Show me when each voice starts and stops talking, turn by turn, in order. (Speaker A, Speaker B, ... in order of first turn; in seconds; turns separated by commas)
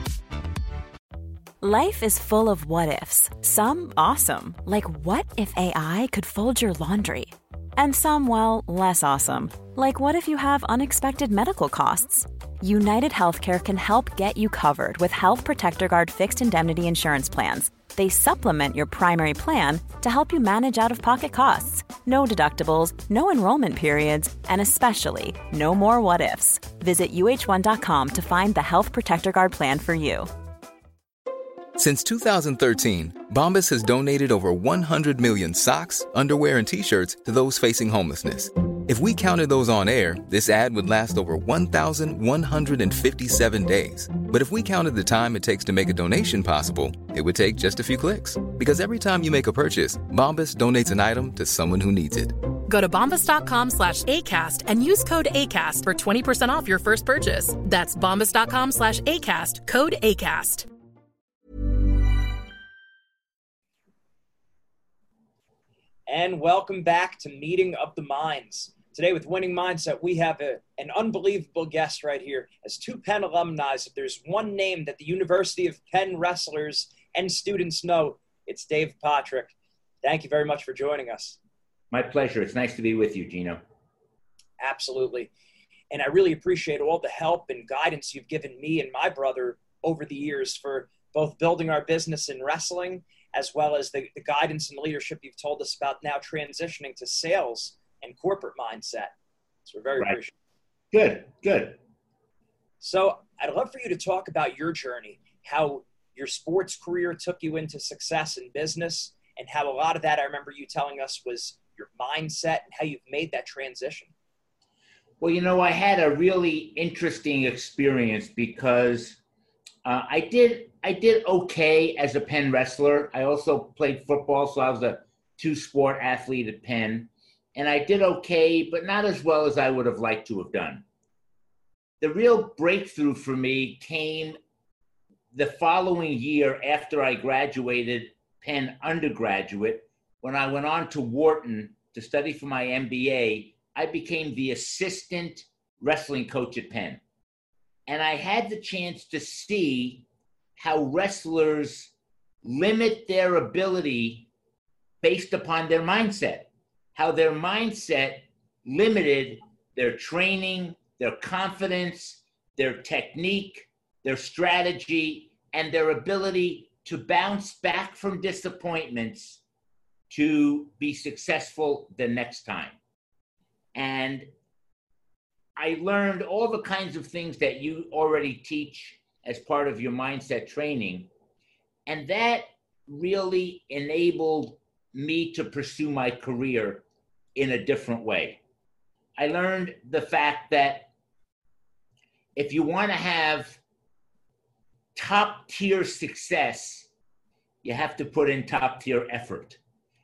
Speaker A: 1.6-30.3, Speaker B: 31.8-52.4, Speaker C: 52.7-60.7, Speaker D: 66.1-81.4, Speaker E: 81.9-83.6, Speaker D: 84.6-85.3, Speaker D: 85.9-99.1, Speaker D: 99.7-100.3, Speaker E: 100.9-101.8, Speaker D: 102.8-114.1, Speaker E: 115.2-119.2, Speaker E: 119.8-130.8, Speaker E: 132.0-134.4, Speaker E: 135.3-147.0, Speaker E: 147.9-150.1, Speaker E: 150.6-151.9, Speaker E: 152.4-154.3, Speaker E: 155.0-169.4, Speaker E: 170.1-172.8, Speaker E: 173.8-174.3, Speaker E: 175.6-181.1, Speaker E: 181.9-186.8, Speaker E: 187.3-188.4, Speaker E: 189.2-190.9, Speaker E: 192.3-193.6, Speaker E: 194.9-196.9, Speaker E: 197.6-199.6